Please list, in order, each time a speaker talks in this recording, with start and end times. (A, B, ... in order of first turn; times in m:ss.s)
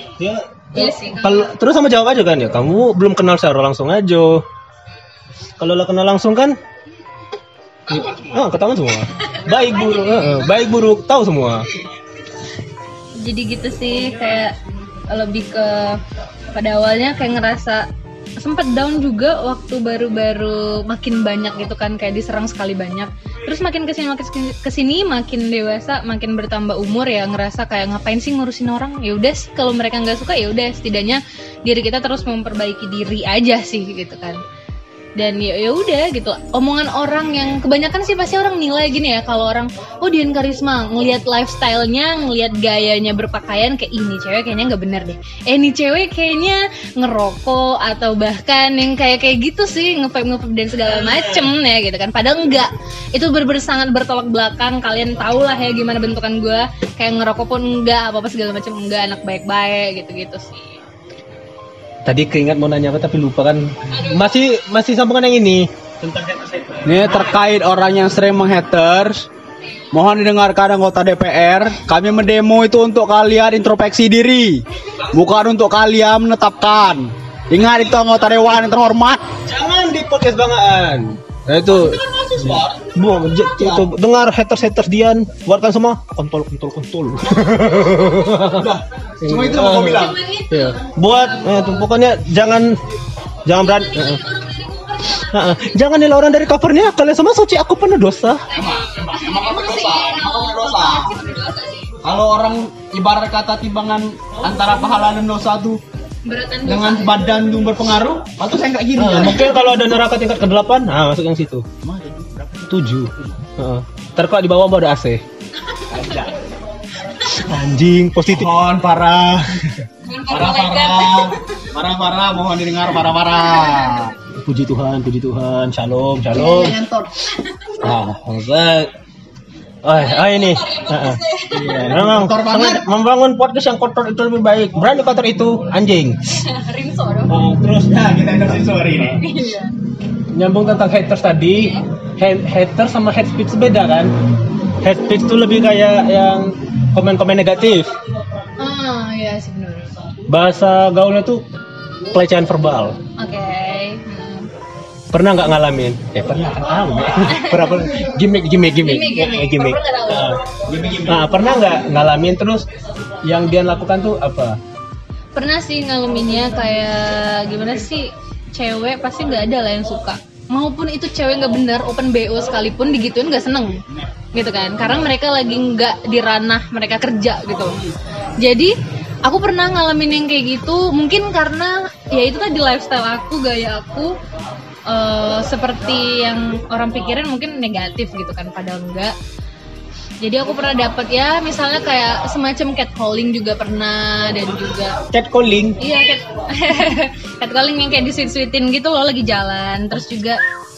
0:00.2-0:04.4 A
0:00.7-0:01.5 B
0:05.6-0:06.6 A
0:07.9-0:11.7 A
0:09.2-0:10.4 B
0:13.2-0:14.6 B
0:15.1-0:16.0 B
0:16.5-0:34.4 B
0:35.2-1:00.8 B
1:02.0-1:07.2 A
1:03.9-1:04.5 B
1:06.8-1:09.2 C
1:09.9-1:19.2 C
1:19.4-1:28.7 A
1:21.7-1:23.0 C
1:23.6-1:23.9 C
1:28.5-1:30.2 C
1:29.2-1:32.8 A
1:29.8-1:31.8 B
1:33.4-1:34.2 A
1:33.6-1:35.8 B
1:35.3-1:38.4 A
1:38.5-1:42.0 B
1:38.5-1:41.2 C
1:42.0-1:45.8 C
1:46.2-1:47.2 B
1:46.6-1:49.6 C
1:48.9-1:51.6 A
1:51.8-1:52.7 C
1:52.7-1:55.2 A
1:55.9-1:56.4 C
1:57.3-1:58.5 A
1:58.2-2:04.2 C
2:00.0-2:01.7 B
2:03.5-2:03.9 B
2:04.3-2:06.8 A
2:06.4-2:07.8 B
2:06.4-2:07.0 C
2:07.8-2:08.9 A
2:09.8-2:11.2 A
2:10.0-2:11.9 B
2:11.5-2:12.8 C
2:11.8-2:16.2 A
2:16.3-2:17.3 B
2:17.3-2:17.9 A
2:17.9-2:19.2 C
2:19.2-2:19.7 B
2:20.3-2:24.1 A
2:21.5-2:21.8 B
2:24.8-2:27.9 A
2:28.6-2:30.0 B
2:30.3-2:31.4 A
2:32.1-2:33.0 A
2:33.2-2:34.5 B
2:35.1-2:40.4 A
2:37.3-2:37.7 B
2:38.8-2:40.4 B
2:40.6-2:41.6 C
2:41.1-2:42.7 A
2:43.2-2:44.6 A
2:45.3-2:53.8 B
2:54.3-2:57.8 B
2:57.6-2:57.9 C
2:58.4-2:58.7 B
2:59.2-3:04.2 B
3:04.9-3:09.1 B
3:10.2-3:15.0 B
3:15.1-3:15.8 A
3:15.8-3:20.4 B